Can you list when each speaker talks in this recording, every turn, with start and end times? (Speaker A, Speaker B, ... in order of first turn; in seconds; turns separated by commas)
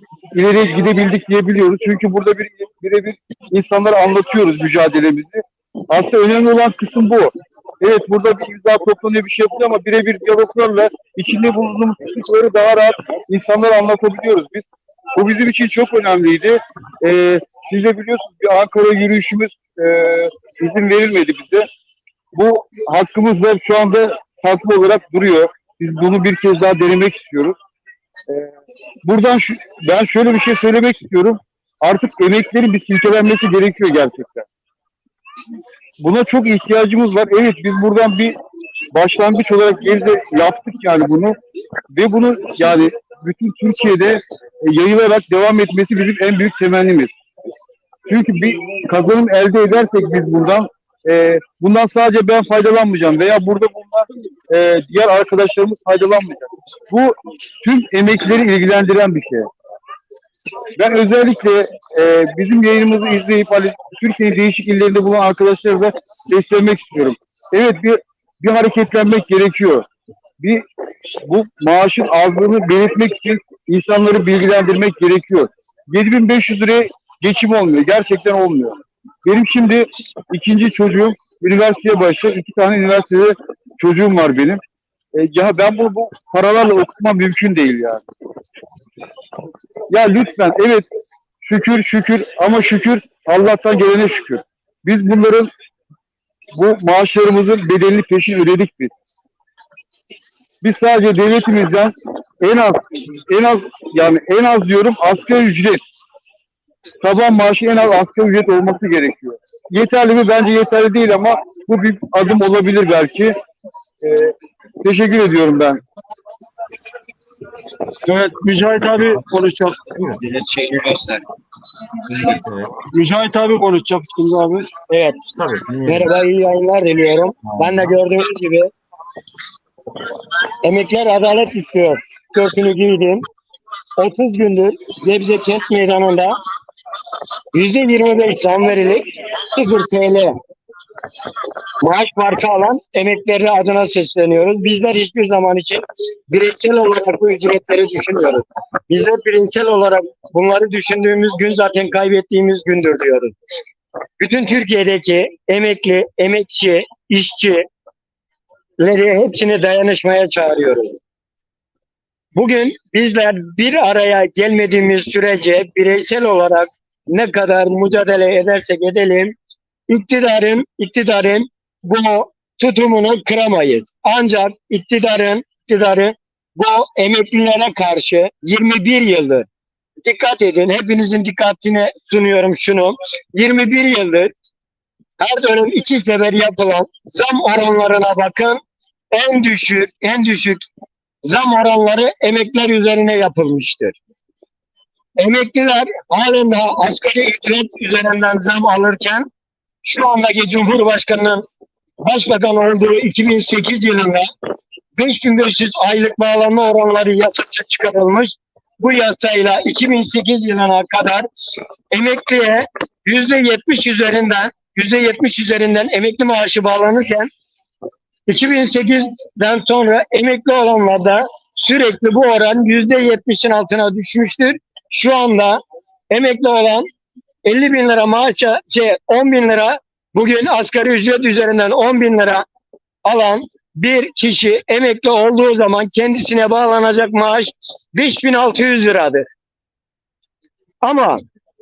Speaker A: 0.3-21.7, Speaker A: 22.3-27.6, Speaker A: 28.3-28.5, Speaker A: 29.0-34.5, Speaker A: 36.0-38.4, Speaker A: 38.9-41.3, Speaker A: 41.9-47.1, Speaker A: 48.1-59.5, Speaker A: 60.8-69.8, Speaker A: 71.2-84.6, Speaker A: 85.1-88.0, Speaker A: 89.9-90.9, Speaker A: 91.4-95.5, Speaker A: 96.5-98.9, Speaker A: 100.6-105.8, Speaker A: 107.0-113.3, Speaker A: 114.0-115.8, Speaker B: 118.0-119.9, Speaker C: 118.9-119.2, Speaker C: 119.9-120.2, Speaker D: 120.2-121.2, Speaker C: 122.3-122.7, Speaker B: 122.9-124.7, Speaker D: 124.9-125.2, Speaker C: 125.3-126.1, Speaker D: 125.8-128.7, Speaker C: 127.4-128.0, Speaker D: 130.6-133.2, Speaker D: 134.0-136.3, Speaker D: 137.5-140.3, Speaker D: 141.8-153.3, Speaker D: 154.2-157.7, Speaker D: 158.8-161.0, Speaker D: 162.3-169.3, Speaker D: 169.9-179.4, Speaker D: 180.0-184.3, Speaker D: 185.2-188.6, Speaker D: 189.1-190.6, Speaker D: 191.2-193.9, Speaker D: 195.2-199.3, Speaker D: 199.8-201.4, Speaker D: 202.0-204.3, Speaker D: 204.9-211.3, Speaker D: 211.9-217.3, Speaker D: 218.3-225.6, Speaker D: 226.1-226.9, Speaker D: 227.4-232.4, Speaker D: 233.0-239.2, Speaker D: 240.8-241.2